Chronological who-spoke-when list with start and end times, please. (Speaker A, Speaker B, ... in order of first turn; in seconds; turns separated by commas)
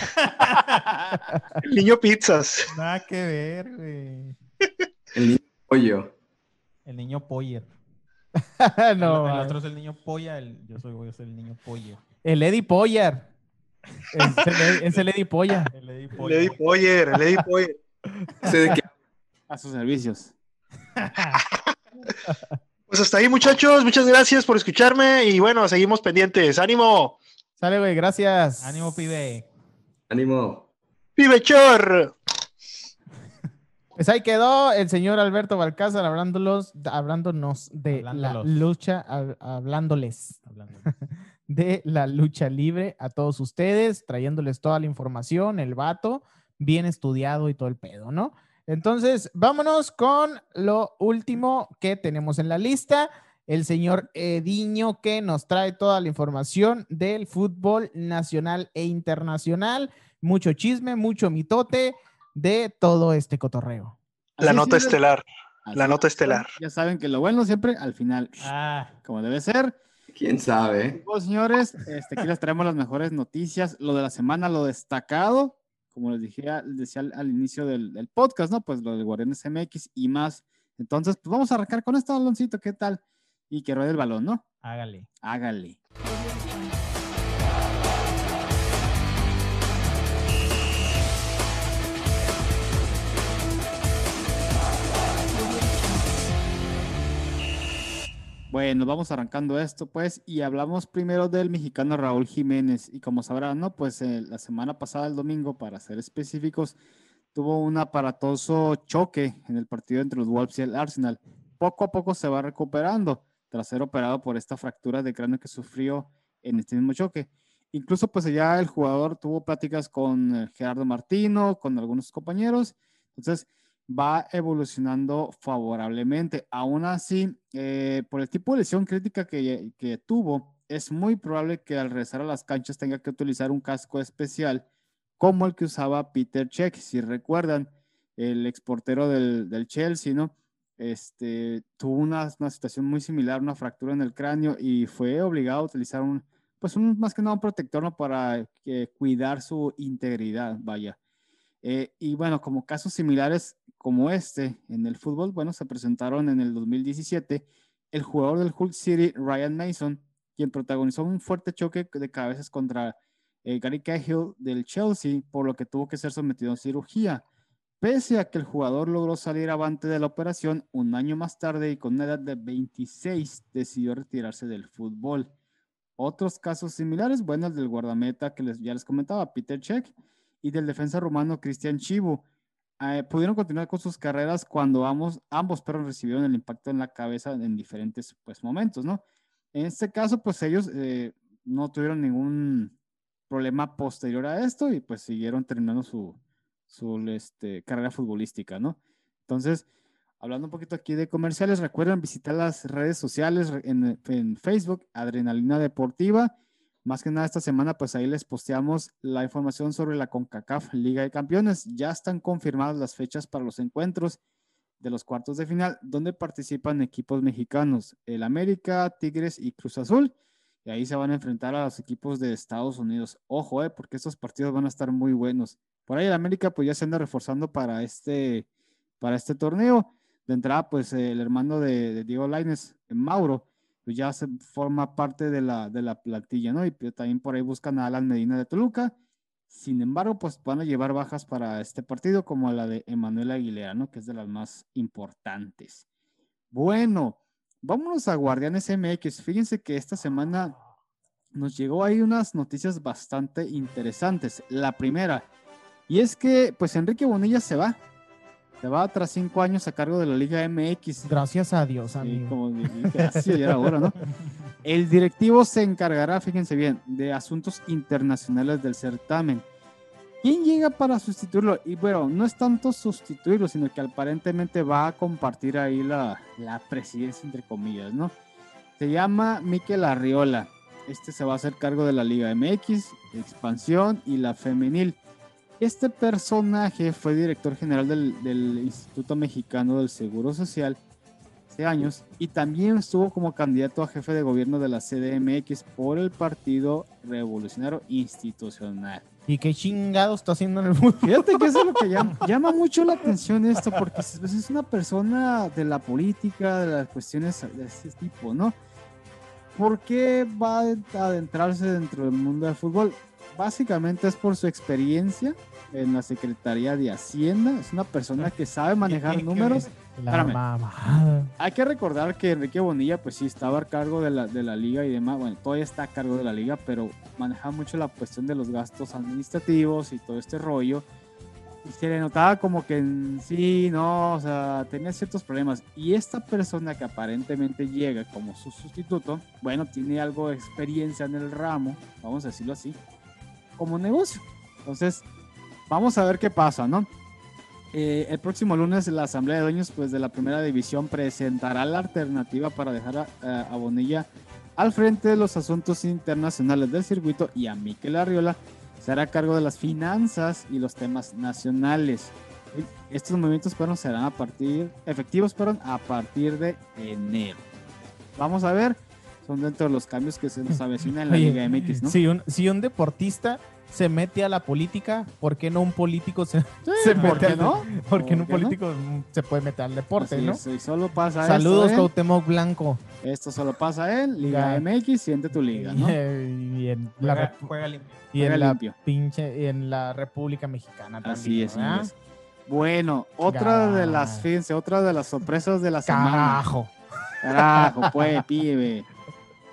Speaker A: 0.1-1.1, Speaker B: 1.6-2.7, Speaker A: 2.7-4.4, Speaker C: 5.1-6.1, Speaker A: 6.8-7.7, Speaker D: 8.6-9.6, Speaker A: 9.0-12.0, Speaker D: 12.2-13.3, Speaker D: 14.1-15.7, Speaker A: 15.7-16.6, Speaker B: 16.2-17.8, Speaker C: 18.4-18.8, Speaker E: 19.5-20.3, Speaker A: 20.9-21.4, Speaker B: 22.9-27.2, Speaker D: 27.6-29.4, Speaker A: 28.6-29.5, Speaker C: 30.1-30.7, Speaker B: 31.2-32.1, Speaker D: 34.0-40.9, Speaker A: 37.9-38.6, Speaker A: 40.5-40.9, Speaker D: 41.5-64.0, Speaker E: 64.4-65.0, Speaker B: 64.4-65.2, Speaker E: 65.7-68.5, Speaker B: 65.7-66.5, Speaker A: 68.4-68.9, Speaker E: 69.0-69.8, Speaker C: 70.1-71.0, Speaker E: 70.9-84.4, Speaker A: 84.6-85.1, Speaker E: 85.2-85.8, Speaker E: 98.5-106.8, Speaker E: 107.3-134.7, Speaker E: 135.2-151.0, Speaker E: 151.6-167.2, Speaker E: 167.8-175.3, Speaker E: 176.0-182.2, Speaker E: 182.8-189.0, Speaker E: 189.5-192.7, Speaker E: 193.3-196.2, Speaker E: 196.7-199.6, Speaker E: 200.2-214.2, Speaker E: 214.8-220.1, Speaker E: 220.6-228.4, Speaker E: 229.0-238.9, Speaker E: 239.5-245.8, Speaker E: 246.5-250.6, Speaker E: 251.3-255.3, Speaker E: 255.9-257.8, Speaker E: 258.6-261.1, Speaker D: 261.1-263.7, Speaker E: 262.0-263.9, Speaker E: 264.6-269.4, Speaker E: 270.2-278.1, Speaker E: 278.8-285.0, Speaker E: 285.6-290.8, Speaker E: 291.5-299.0, Speaker D: 299.3-301.5, Speaker E: 301.0-308.6, Speaker E: 309.5-320.4, Speaker A: 318.9-319.7, Speaker D: 319.9-321.3, Speaker E: 321.4-330.8, Speaker E: 331.6-342.8, Speaker E: 343.6-345.0, Speaker E: 345.7-346.9, Speaker E: 347.7-367.4, Speaker E: 368.1-372.0, Speaker D: 371.1-380.4, Speaker E: 376.6-378.6, Speaker A: 376.9-377.5, Speaker E: 380.0-381.9, Speaker D: 381.2-382.8, Speaker E: 383.0-385.9, Speaker D: 384.2-384.6, Speaker D: 385.5-387.5, Speaker A: 387.0-388.0, Speaker D: 388.1-391.9, Speaker E: 388.2-388.7, Speaker E: 391.0-391.9, Speaker E: 392.5-396.4, Speaker D: 393.3-394.3, Speaker D: 395.9-396.7, Speaker E: 397.2-398.9, Speaker D: 397.5-398.2